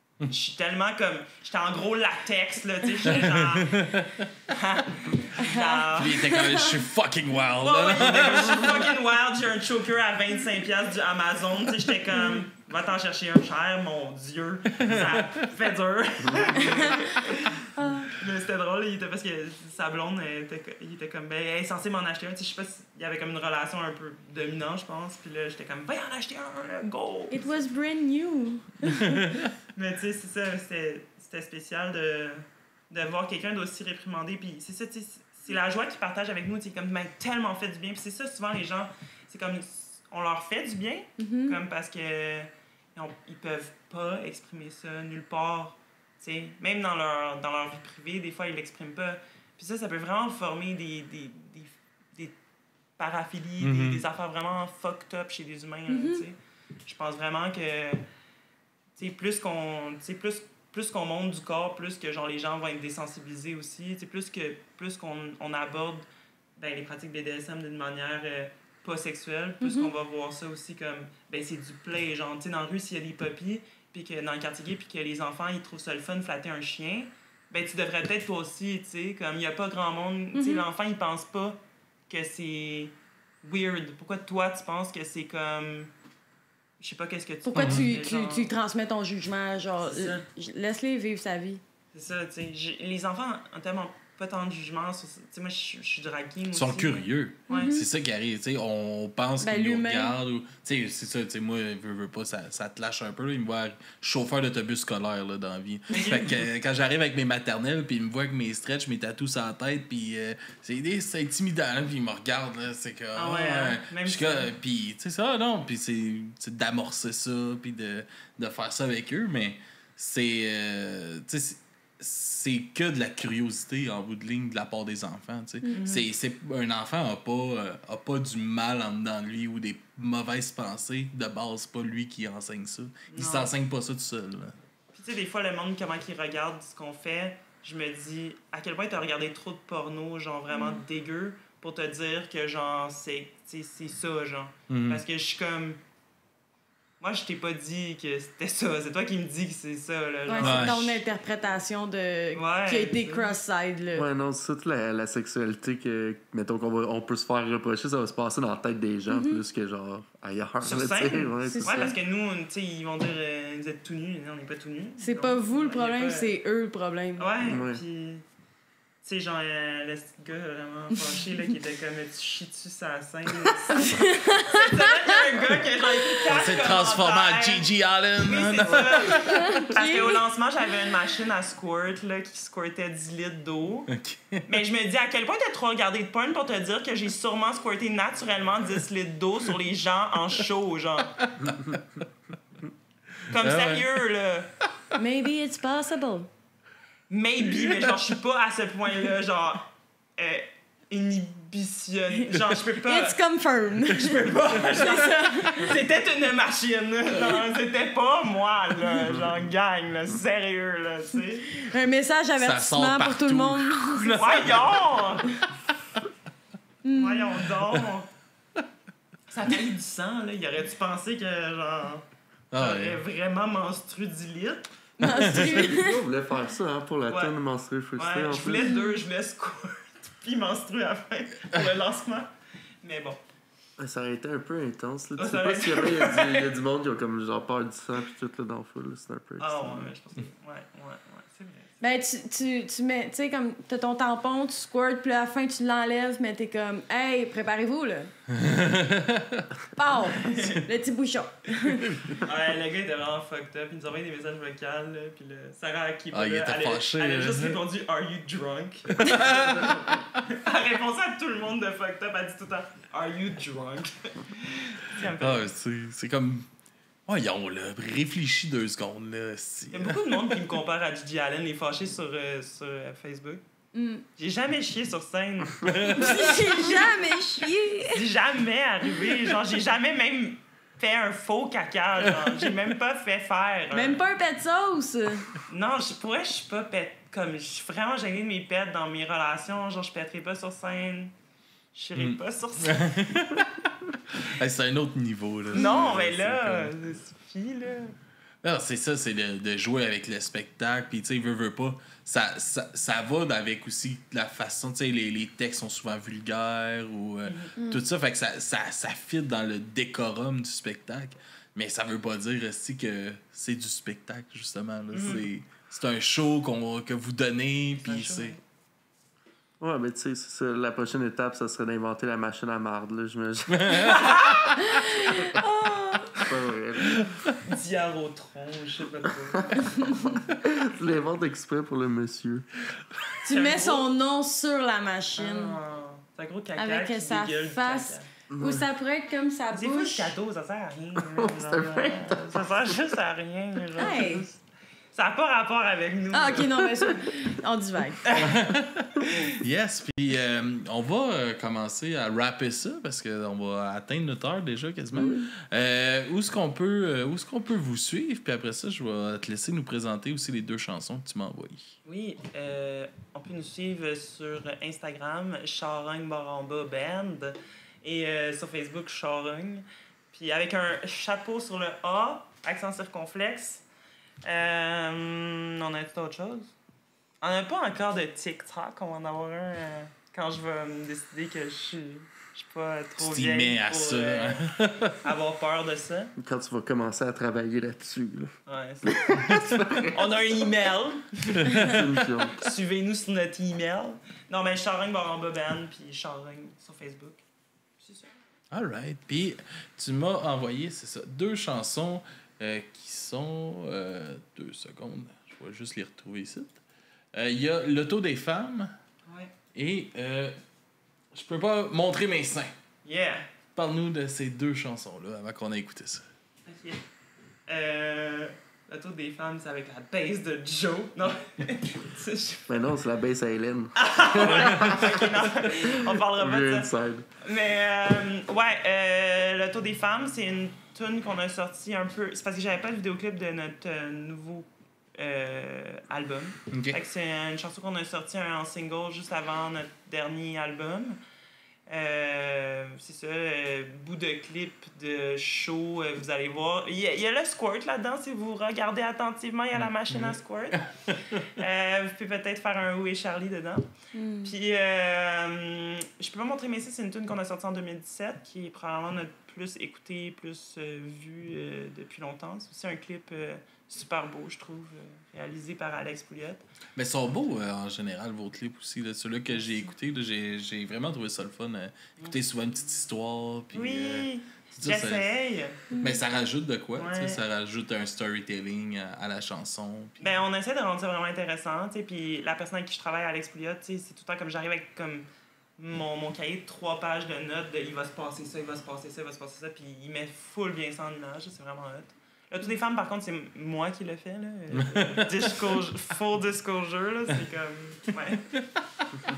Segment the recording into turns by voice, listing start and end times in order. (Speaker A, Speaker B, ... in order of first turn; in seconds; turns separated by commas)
Speaker A: 0.3-6.4, Speaker B: 3.1-4.2, Speaker C: 5.4-6.8, Speaker B: 6.0-8.9, Speaker A: 7.6-27.5, Speaker C: 12.2-12.4, Speaker B: 14.8-15.2, Speaker D: 16.2-16.6, Speaker C: 16.6-17.1, Speaker C: 17.8-18.2, Speaker C: 27.3-29.3, Speaker B: 29.2-29.5, Speaker A: 29.7-52.4, Speaker C: 41.2-41.6, Speaker A: 53.0-58.0, Speaker B: 53.6-54.0, Speaker C: 55.9-56.2, Speaker A: 59.0-85.9, Speaker C: 69.6-69.9, Speaker C: 80.3-80.7, Speaker A: 86.8-88.5, Speaker C: 87.5-91.6, Speaker B: 87.5-88.0, Speaker A: 89.8-90.3, Speaker A: 91.9-97.8, Speaker B: 96.5-134.6, Speaker C: 97.5-97.8, Speaker C: 99.4-100.2, Speaker A: 105.9-106.3, Speaker A: 113.2-114.5, Speaker A: 125.7-126.1, Speaker A: 133.1-133.5, Speaker A: 134.9-145.8, Speaker C: 140.5-140.8, Speaker B: 144.7-145.0, Speaker A: 147.0-151.0, Speaker C: 150.3-154.1, Speaker B: 150.4-150.9, Speaker A: 152.3-153.3, Speaker D: 153.9-161.9, Speaker C: 159.1-159.4, Speaker A: 160.6-166.3, Speaker C: 161.5-162.0, Speaker C: 165.0-167.3, Speaker A: 167.2-168.2, Speaker D: 167.4-167.8, Speaker A: 169.0-177.7, Speaker C: 173.8-174.7, Speaker B: 176.3-179.6, Speaker A: 178.2-183.9, Speaker C: 179.1-180.2, Speaker B: 183.9-184.5, Speaker A: 184.5-191.2, Speaker B: 191.2-192.0, Speaker B: 193.2-193.9, Speaker A: 193.3-194.5, Speaker C: 194.9-196.3, Speaker A: 197.1-203.2, Speaker B: 197.5-197.9, Speaker C: 202.7-205.8, Speaker A: 203.8-211.5, Speaker C: 211.5-214.4, Speaker B: 212.4-214.9, Speaker A: 214.1-215.4, Speaker C: 216.8-217.5, Speaker A: 216.9-218.1, Speaker A: 219.3-224.7, Speaker B: 222.5-223.0, Speaker C: 225.0-226.0, Speaker B: 225.1-225.6, Speaker D: 225.4-228.7, Speaker A: 227.1-227.4, Speaker A: 227.9-232.3, Speaker C: 228.6-229.0, Speaker A: 232.8-233.2, Speaker D: 233.8-239.9, Speaker A: 235.2-236.5, Speaker A: 239.4-241.8, Speaker C: 241.8-248.1, Speaker B: 248.3-249.5, Speaker C: 249.8-252.2, Speaker A: 250.2-250.7, Speaker A: 252.2-265.5, Speaker B: 256.1-257.6, Speaker B: 258.9-259.7, Speaker B: 265.2-266.5, Speaker B: 267.1-270.3, Speaker A: 269.7-273.4, Speaker C: 273.7-274.0, Speaker A: 274.2-284.0, Speaker B: 275.6-276.5, Speaker C: 275.9-278.1, Speaker C: 283.7-285.3, Speaker A: 285.5-291.1, Speaker A: 291.7-293.0, Speaker B: 292.0-296.9, Speaker A: 295.5-297.9, Speaker B: 298.4-318.4, Speaker A: 307.2-307.5, Speaker A: 314.9-315.3, Speaker A: 317.8-318.4, Speaker D: 319.6-323.9, Speaker B: 323.5-325.0, Speaker A: 323.8-324.4, Speaker C: 324.6-326.3, Speaker D: 326.2-327.1, Speaker B: 327.0-327.3, Speaker A: 327.4-330.0, Speaker D: 329.3-332.8, Speaker C: 333.2-335.6, Speaker A: 333.3-333.9, Speaker A: 335.2-338.1, Speaker C: 336.6-340.1, Speaker D: 338.3-338.7, Speaker A: 339.5-344.3, Speaker D: 341.0-342.8, Speaker C: 343.8-344.3, Speaker A: 344.9-346.6, Speaker C: 346.1-348.3, Speaker A: 348.0-348.4, Speaker B: 348.1-361.8, Speaker C: 355.0-355.3, Speaker A: 361.9-373.6, Speaker A: 374.2-376.5, Speaker A: 377.2-386.1, Speaker B: 383.0-384.9, Speaker D: 386.2-388.3, Speaker A: 388.5-397.2, Speaker D: 388.9-390.0, Speaker B: 391.4-391.9, Speaker D: 391.5-392.4, Speaker A: 397.8-398.1, Speaker B: 398.5-406.6, Speaker B: 407.1-408.7, Speaker A: 409.1-409.3, Speaker B: 409.6-410.4, Speaker B: 411.1-412.5, Speaker A: 412.8-413.2, Speaker B: 413.6-416.0, Speaker A: 416.4-416.8, Speaker A: 417.5-422.5, Speaker D: 422.5-427.1, Speaker A: 423.8-441.0, Speaker B: 424.3-424.9, Speaker B: 436.5-436.8, Speaker A: 441.7-453.7, Speaker C: 453.9-454.4, Speaker A: 454.2-466.4, Speaker B: 466.8-475.1, Speaker A: 469.3-469.7, Speaker A: 473.5-475.7, Speaker C: 475.7-476.0, Speaker B: 475.8-480.1, Speaker A: 476.8-477.2, Speaker A: 480.0-498.3, Speaker B: 494.6-495.5